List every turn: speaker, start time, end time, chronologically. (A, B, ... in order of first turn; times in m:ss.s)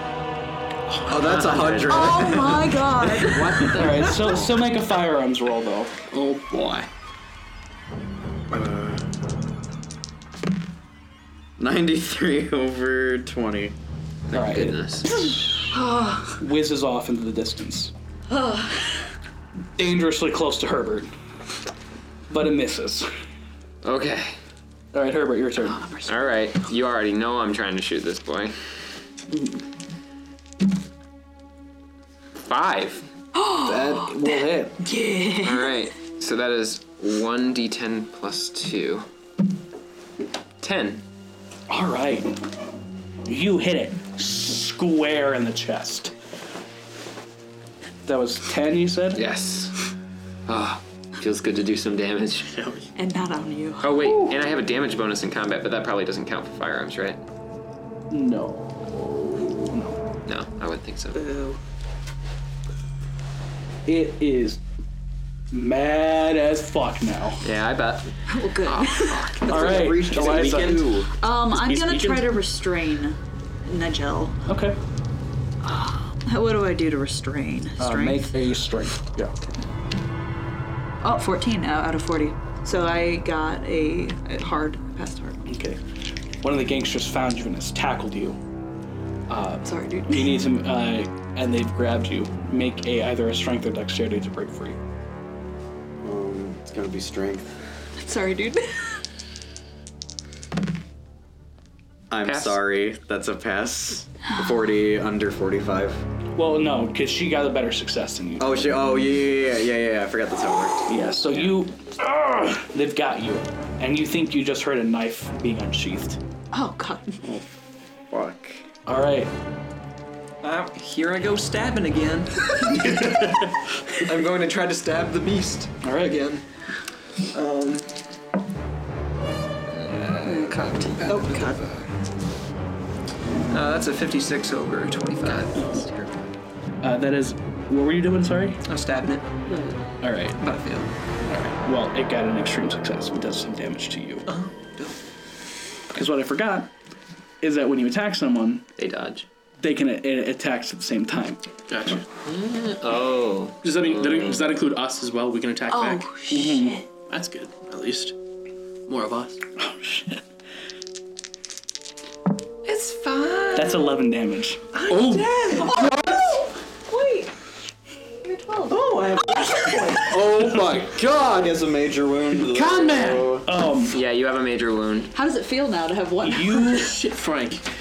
0:01.1-0:03.4 A
0:01.2-0:02.3 B
0:01.9-0:04.3 C
0:03.2-0:04.4 B
0:03.7-0:06.0 D
0:06.1-0:06.9 E
0:08.5-0:09.0 A
0:11.6-0:13.8 A
0:14.3-0:15.3 B
0:14.3-0:15.4 D
0:15.7-0:16.4 C
0:16.4-0:17.9 D
0:18.3-0:19.0 C
0:19.8-0:21.1 D
0:22.3-0:23.1 D
0:23.8-0:24.4 B
0:24.9-0:25.8 D
0:25.6-0:26.3 C
0:26.1-0:28.6 B
0:32.5-0:33.1 B
0:33.4-0:35.8 C
0:33.6-0:34.9 D
0:35.4-0:39.1 B
0:40.6-0:41.0 B
0:41.7-0:42.4 D
0:43.3-0:46.1 D
0:48.0-0:49.2 D
0:49.1-0:49.8 B
0:50.5-0:52.5 B
0:52.5-0:52.9 E
0:53.0-0:54.1 C
0:53.8-0:57.2 B
0:58.1-1:00.0 D
1:00.3-1:01.2 B
1:01.1-1:01.6 C
1:03.9-1:04.6 D
1:05.5-1:07.5 D
1:07.4-1:08.1 B
1:08.3-1:09.4 C
1:08.7-1:09.7 E
1:09.4-1:11.1 A
1:09.5-1:10.9 D
1:10.6-1:14.4 C
1:11.6-1:12.2 E
1:14.5-1:14.8 D
1:15.6-1:18.4 C
1:17.8-1:19.3 D
1:21.0-1:25.5 C
1:25.5-1:25.8 D
1:26.4-1:28.4 D
1:29.3-1:34.8 D
1:29.6-1:30.4 C
1:36.0-1:37.6 A
1:38.0-1:39.0 C
1:42.1-1:46.0 A
1:42.2-1:42.6 B
1:46.4-1:48.8 D
1:48.4-1:50.9 A
1:50.9-1:56.2 D
1:56.5-1:57.2 C
1:58.1-1:58.6 A
1:58.9-1:59.3 D
2:00.4-2:03.3 F
2:04.0-2:06.4 F
2:05.8-2:06.2 D
2:07.3-2:08.0 F
2:09.8-2:11.9 F
2:10.2-2:11.6 C
2:13.5-2:16.1 F
2:16.8-2:18.6 D
2:18.6-2:19.3 F
2:19.5-2:19.8 C
2:20.0-2:20.4 D
2:20.4-2:20.9 F
2:21.5-2:24.3 D
2:24.3-2:25.0 F
2:25.9-2:26.7 D
2:27.4-2:28.7 D
2:28.8-2:29.3 B
2:29.6-2:31.4 D
2:31.7-2:32.0 E
2:32.2-2:34.4 B
2:33.6-2:36.2 E
2:35.7-2:36.9 C
2:36.3-2:36.8 D
2:37.1-2:38.2 E
2:38.9-2:39.4 E
2:39.6-2:40.2 D
2:42.6-2:43.9 F
2:43.5-2:44.7 D
2:44.7-2:45.9 F
2:44.9-2:46.4 E
2:45.6-2:47.3 C
2:48.2-2:49.2 C
2:48.8-2:50.2 F
2:50.0-2:51.6 E
2:51.3-2:53.5 A
2:52.4-2:53.3 E
2:53.4-2:54.0 D
2:53.9-2:55.1 B
2:55.1-2:56.9 C
2:56.2-2:56.9 D
2:56.7-2:57.6 E